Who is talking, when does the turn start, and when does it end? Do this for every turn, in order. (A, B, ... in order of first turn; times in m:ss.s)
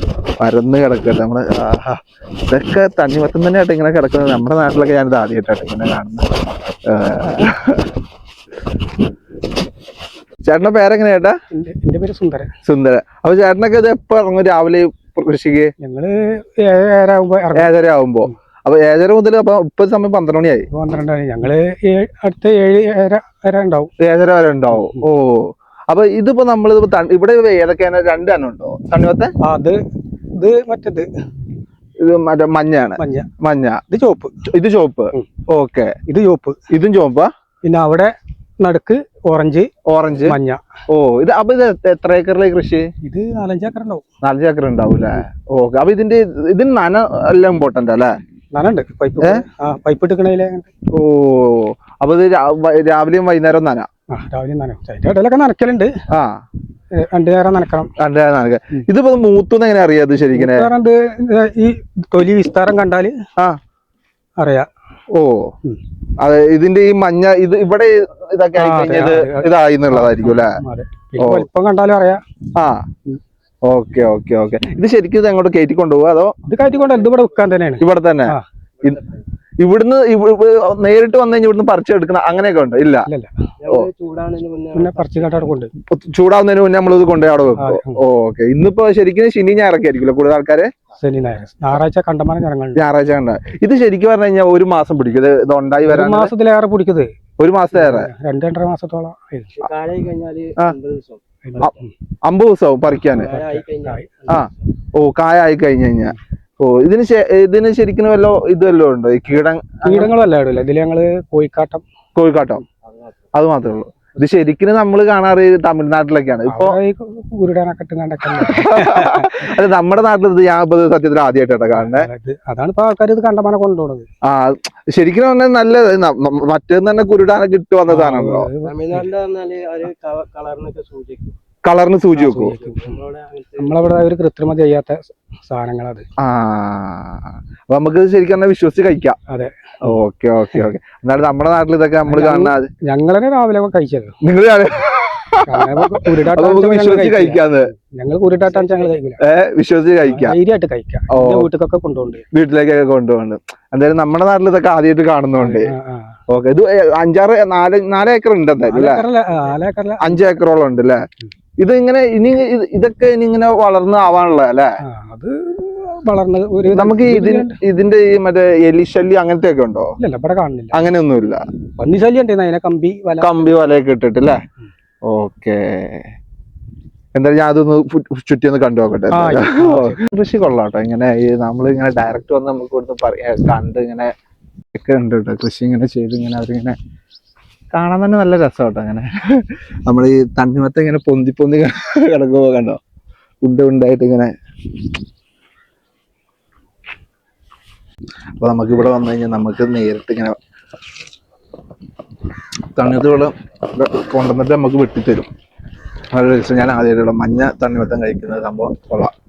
0:00.4-0:06.2 A
0:06.9-0:07.9 A
0:10.4-0:11.4 A
0:11.5-0:12.5 B
0:12.6-0:15.7 A
0:15.8-0:17.7 B
0:17.6-0:20.7 A
0:20.7-0:23.9 B
0:24.0-0:29.3 A
0:24.7-0:25.0 B
0:29.4-0:29.8 B
0:30.3-0:31.1 B
0:32.0-0:33.8 A
0:33.0-0:33.3 B
0:33.9-0:34.3 B
0:34.5-0:36.0 A
0:36.1-0:36.6 B
0:36.7-0:37.3 A
0:37.6-0:39.7 B
0:39.9-0:40.4 A
0:40.3-0:40.6 B
0:40.9-0:42.9 A
0:43.0-0:44.0 B
0:44.2-0:48.1 A
0:48.5-0:50.7 B
0:50.9-0:53.9 A
0:54.1-0:55.9 B
0:56.1-0:56.4 A
0:57.0-0:57.9 B
0:58.0-1:00.7 A
1:00.3-1:03.1 B
1:04.4-1:04.7 B
1:05.1-1:05.5 A
1:06.2-1:10.5 A
1:08.6-1:12.2 B
1:11.2-1:11.5 A
1:13.7-1:16.3 A
1:16.5-1:18.4 B
1:16.7-1:17.1 C
1:17.8-1:19.0 A
1:18.8-1:19.2 C
1:19.6-1:23.1 A
1:23.6-1:25.3 C
1:24.7-1:25.7 B
1:25.9-1:30.7 A
1:27.6-1:28.0 B
1:31.0-1:32.8 B
1:32.8-1:36.3 A
1:35.9-1:37.1 B
1:37.4-1:38.1 A
1:37.7-1:39.6 B
1:39.6-1:41.8 C
1:41.4-1:41.9 B
1:41.6-1:43.3 A
1:42.9-1:44.0 B
1:43.1-1:44.5 C
1:44.3-1:50.1 A
1:49.8-1:51.8 B
1:52.2-1:52.6 A
1:53.3-1:56.8 A
1:56.5-1:59.3 B
1:58.4-2:02.1 A
2:01.8-2:04.1 B
2:04.2-2:08.5 A
2:07.9-2:09.1 B
2:08.6-2:11.4 C
2:11.6-2:12.6 A
2:12.1-2:13.0 B
2:12.6-2:13.9 C
2:13.6-2:16.0 B
2:16.2-2:19.2 A
2:19.8-2:22.7 A
2:22.1-2:24.2 B
2:24.2-2:27.7 A
2:25.5-2:29.2 B
2:28.5-2:28.9 C
2:29.2-2:30.4 A
2:30.1-2:32.2 B
2:31.1-2:31.5 A
2:32.3-2:35.7 A
2:35.4-2:36.1 B
2:36.3-2:39.0 A
2:38.7-2:40.2 B
2:40.0-2:41.0 A
2:41.6-2:44.7 A
2:44.9-2:47.6 B
2:46.7-2:49.9 A
2:50.0-2:50.9 B
2:50.7-2:51.4 A
2:51.8-2:53.5 B
2:53.2-2:54.4 A
2:55.1-2:56.1 A
2:57.2-3:04.1 A
2:59.1-3:00.0 B
3:04.7-3:06.8 A
3:07.7-3:12.8 A
3:13.4-3:14.3 A
3:18.4-3:20.4 A
3:22.8-3:25.3 A
3:26.1-3:29.1 A